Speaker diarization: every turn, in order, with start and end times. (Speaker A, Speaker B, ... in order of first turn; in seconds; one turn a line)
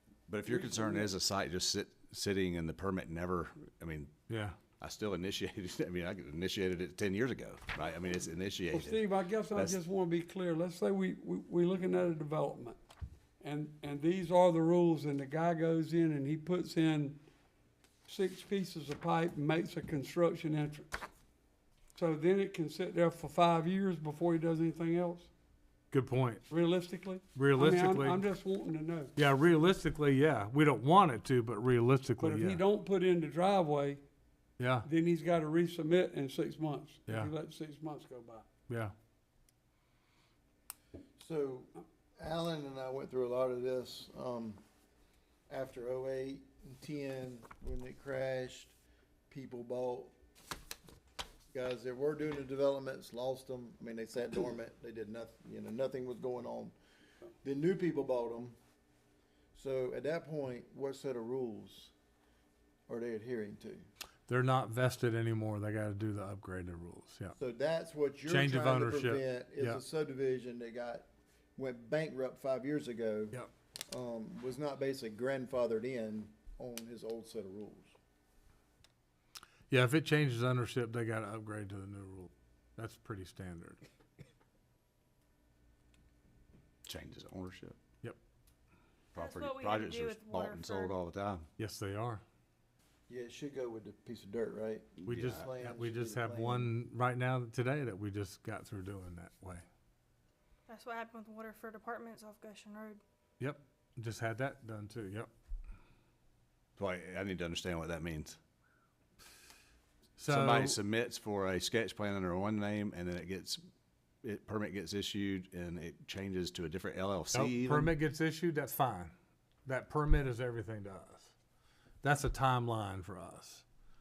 Speaker A: 0.3-4.1
Speaker B: 0.5-1.1
Speaker C: 4.3-4.6
Speaker A: 4.8-9.8
Speaker B: 8.7-12.8
Speaker B: 13.4-17.2
Speaker B: 18.1-21.0
Speaker B: 22.0-25.3
Speaker C: 25.9-26.4
Speaker B: 26.5-29.1
Speaker C: 27.4-28.2
Speaker C: 29.2-32.6
Speaker B: 32.2-34.0
Speaker C: 34.6-34.9
Speaker B: 34.8-38.5
Speaker C: 38.7-38.9
Speaker D: 41.2-44.6
Speaker D: 45.5-48.8
Speaker D: 49.3-50.1
Speaker D: 51.5-56.8
Speaker D: 57.4-58.6
Speaker D: 59.5-61.9
Speaker D: 62.9-63.9
Speaker C: 64.3-67.4
Speaker D: 67.4-73.4
Speaker C: 68.3-69.8
Speaker D: 73.9-78.0
Speaker C: 79.7-83.8
Speaker A: 86.9-87.8
Speaker E: 89.2-91.0
Speaker A: 89.2-91.5
Speaker C: 91.6-92.2
Speaker D: 93.1-96.7
Speaker A: 95.0-95.5
Speaker C: 95.1-99.7
Speaker E: 100.7-103.0
Speaker C: 103.4-105.3
Speaker A: 106.8-108.4
Speaker C: 110.2-110.8
Speaker A: 110.3-113.6
Speaker A: 114.2-117.9
Speaker C: 117.3-119.1
Speaker C: 119.7-121.3
Speaker C: 122.0-123.7